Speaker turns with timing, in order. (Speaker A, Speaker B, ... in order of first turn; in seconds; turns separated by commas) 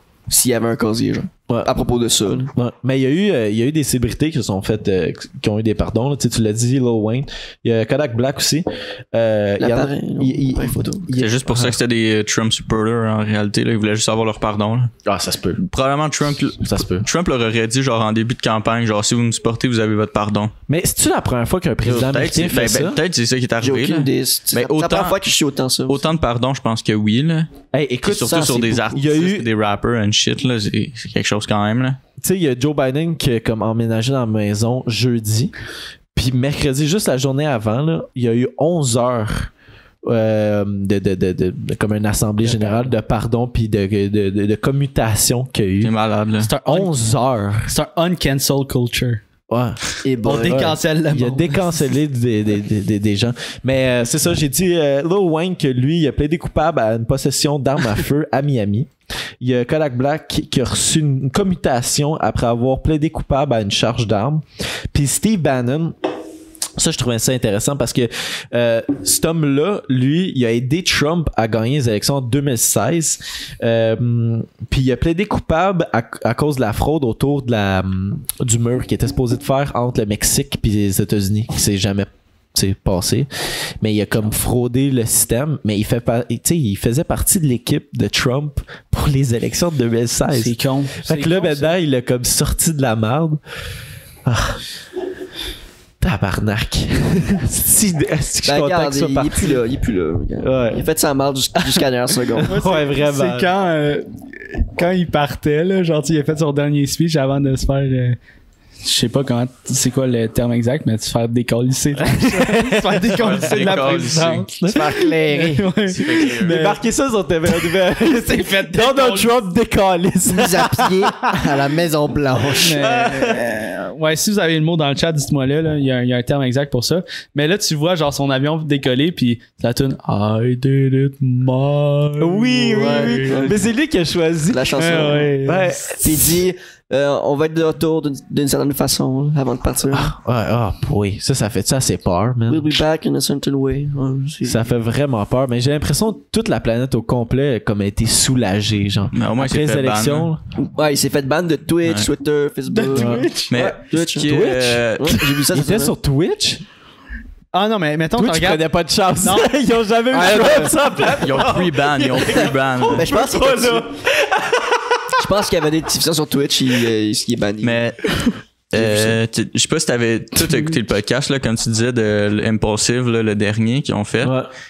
Speaker A: 0.3-2.5, Speaker B: 2.5-11.8, Speaker A: 9.6-11.1, Speaker C: 11.2-14.9, Speaker B: 15.0-15.6, Speaker C: 15.6-20.5, Speaker B: 16.6-17.1, Speaker B: 20.7-23.0, Speaker C: 21.8-25.2, Speaker A: 23.6-26.0, Speaker C: 25.9-27.5, Speaker B: 27.7-29.5, Speaker C: 28.0-32.0, Speaker A: 28.1-29.0, Speaker B: 32.2-35.5, Speaker B: 36.1-39.5, Speaker B: 40.0-45.9, Speaker D: 42.5-42.8, Speaker C: 45.8-46.5, Speaker D: 46.4-46.9, Speaker B: 46.6-47.7, Speaker D: 47.7-49.2, Speaker B: 49.5-49.8, Speaker A: 50.0-50.7, Speaker D: 50.2-51.7, Speaker B: 50.4-65.9, Speaker B: 66.8-93.4, Speaker D: 90.3-91.7, Speaker B: 94.2-94.6, Speaker B: 96.0-99.6, Speaker A: 98.4-102.5, Speaker B: 100.4-100.8, Speaker B: 102.4-103.5, Speaker D: 102.4-108.2, Speaker D: 108.8-116.8, Speaker B: 112.0-113.7, Speaker C: 113.1-114.5, Speaker B: 114.6-121.6, Speaker A: 114.7-115.6, Speaker C: 115.9-116.6, Speaker D: 117.5-119.3, Speaker A: 120.3-122.8, Speaker B: 122.5-123.5, Speaker D: 122.6-133.6, Speaker B: 132.2-136.4, Speaker A: 132.7-133.6, Speaker A: 134.5-140.1, Speaker D: 134.8-135.8, Speaker B: 139.9-142.8, Speaker A: 142.5-144.6, Speaker B: 144.4-150.4, Speaker C: 149.1-150.3, Speaker A: 150.6-154.4, Speaker C: 151.8-152.1, Speaker D: 152.7-153.5, Speaker B: 152.9-156.6, Speaker C: 153.5-155.2, Speaker A: 155.0-155.9, Speaker D: 157.5-158.6, Speaker B: 158.2-165.2, Speaker D: 159.2-160.7, Speaker A: 160.1-160.8, Speaker C: 161.1-163.1, Speaker A: 162.2-163.8, Speaker A: 165.2-167.8, Speaker C: 167.6-168.0, Speaker C: 168.7-174.3, Speaker A: 168.7-169.2, Speaker B: 174.2-174.5